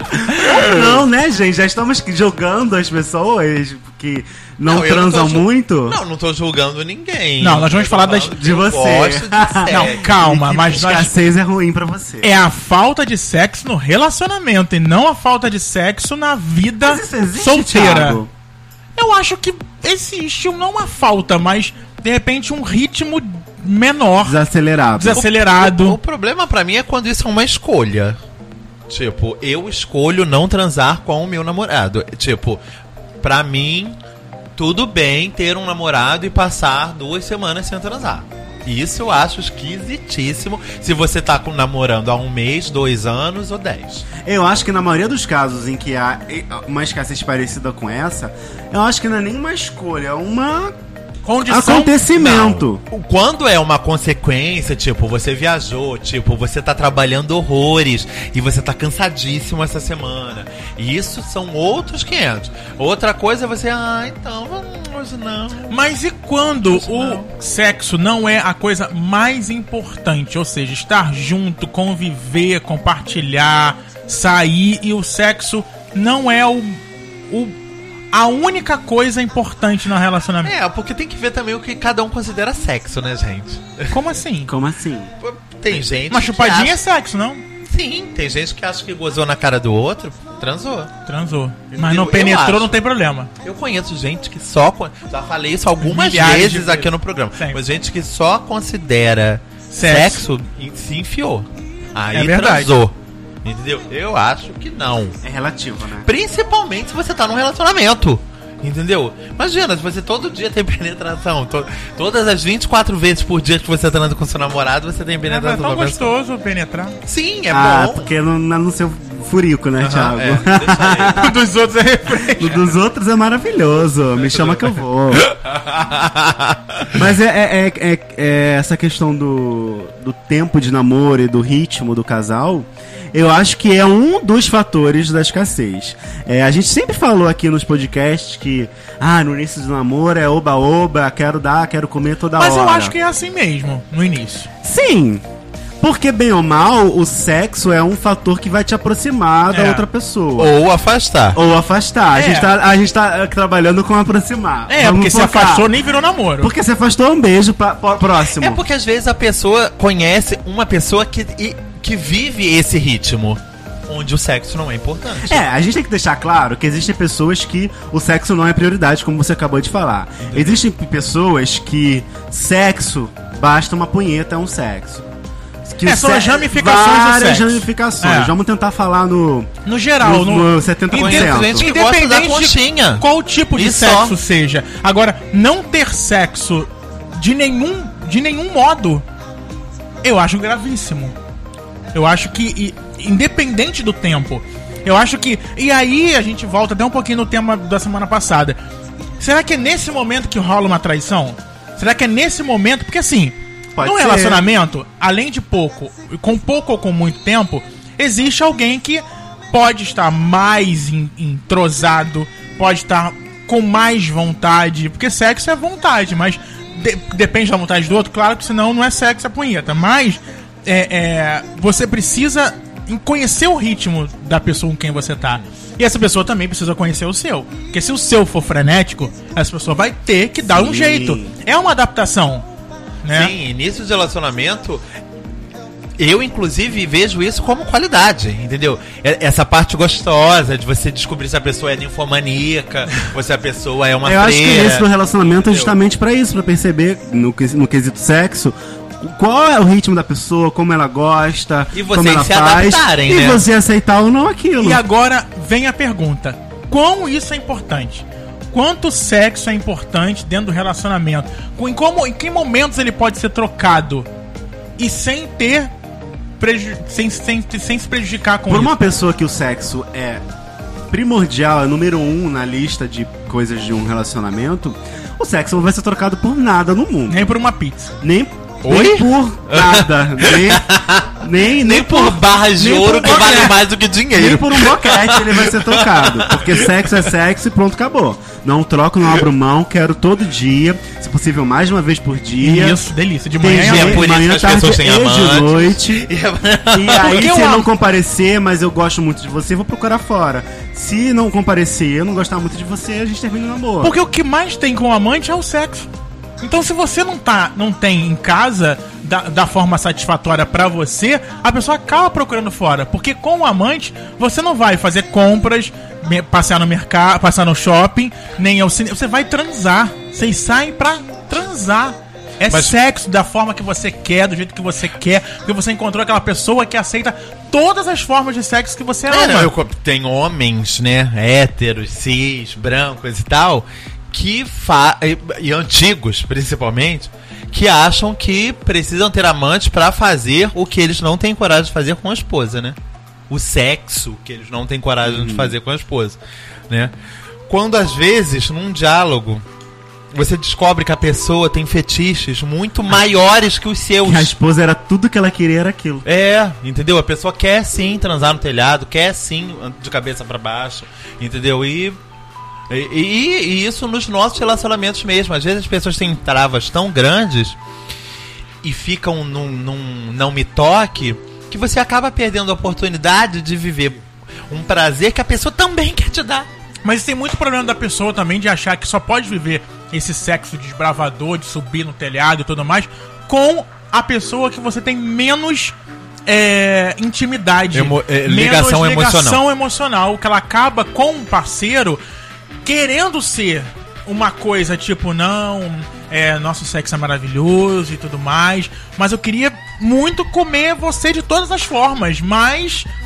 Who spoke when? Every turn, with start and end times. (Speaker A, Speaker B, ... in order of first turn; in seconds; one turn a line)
Speaker A: 0.1-6.0
Speaker B: 0.3-0.8
Speaker C: 4.7-10.0
Speaker B: 7.4-8.4
Speaker A: 8.3-12.3
Speaker B: 9.7-11.1
Speaker B: 12.2-18.2
Speaker A: 16.8-18.3
Speaker B: 18.9-24.4
Speaker A: 24.2-25.2
Speaker B: 24.9-26.0
Speaker C: 25.1-28.2
Speaker C: 28.9-32.6
Speaker C: 33.2-34.0
Speaker C: 34.6-44.1
Speaker A: 44.2-50.7
Speaker B: 51.2-52.0
Speaker A: 51.4-52.8
Speaker C: 52.1-65.8
Speaker B: 65.7-77.5
Speaker C: 66.6-67.3
Speaker B: 78.1-80.5
Speaker C: 80.4-83.9
Speaker B: 83.9-84.5
Speaker A: 84.5-85.1
Speaker C: 85.2-86.8
Speaker B: 86.1-87.4
Speaker C: 87.7-90.9
Speaker B: 91.0-93.3
Speaker C: 91.7-92.7
Speaker C: 93.4-105.2
Speaker B: 95.8-97.6
Speaker B: 99.7-100.2
Speaker B: 102.1-102.7
Speaker A: 105.2-106.1
Speaker C: 106.0-116.1
Speaker B: 115.2-117.0
Speaker C: 117.0-118.1
Speaker A: 117.5-121.3
Speaker C: 119.8-121.2
Speaker B: 121.1-122.6
Speaker A: 122.1-125.3
Speaker C: 124.3-127.0
Speaker A: 126.9-142.9
Speaker B: 142.3-144.5
Speaker A: 144.6-145.2
Speaker A: 145.8-150.6
Speaker B: 149.5-149.8
Speaker C: 150.4-151.4
Speaker A: 151.3-155.7
Speaker B: 152.1-152.5
Speaker B: 154.7-156.5
Speaker A: 156.4-158.6
Speaker C: 158.3-165.4
Speaker A: 165.2-175.0
Speaker C: 170.3-170.6
Speaker A: 175.6-179.5
Speaker B: 175.8-178.3
Speaker B: 179.7-189.0
Speaker A: 180.0-181.7
Speaker C: 180.9-184.1
Speaker B: 190.0-191.2
Speaker B: 191.9-198.6
Speaker B: 199.2-232.5
Speaker A: 203.7-204.4
Speaker A: 230.5-231.3
Speaker B: 233.0-233.3
Speaker C: 233.1-234.8
Speaker C: 236.0-245.7
Speaker A: 244.0-254.8
Speaker C: 251.7-253.4
Speaker B: 254.6-264.1
Speaker B: 264.8-265.7
Speaker B: 266.4-268.7
Speaker A: 268.5-270.2
Speaker A: 270.9-277.3
Speaker B: 277.1-277.9
Speaker A: 278.0-292.8
Speaker C: 278.6-287.1
Speaker B: 292.4-294.1
Speaker A: 293.4-296.1
Speaker C: 293.5-297.3
Speaker A: 296.7-304.0
Speaker B: 296.9-297.7
Speaker B: 303.8-305.9
Speaker B: 306.4-329.5
Speaker C: 322.5-322.7
Speaker C: 329.1-342.8
Speaker C: 343.3-346.2
Speaker A: 345.0-345.5
Speaker C: 347.5-349.4
Speaker C: 350.1-354.3
Speaker A: 354.0-356.1
Speaker C: 356.1-362.0
Speaker C: 362.7-367.6
Speaker C: 368.6-376.5
Speaker B: 376.8-392.0
Speaker C: 387.7-389.4
Speaker B: 392.6-402.9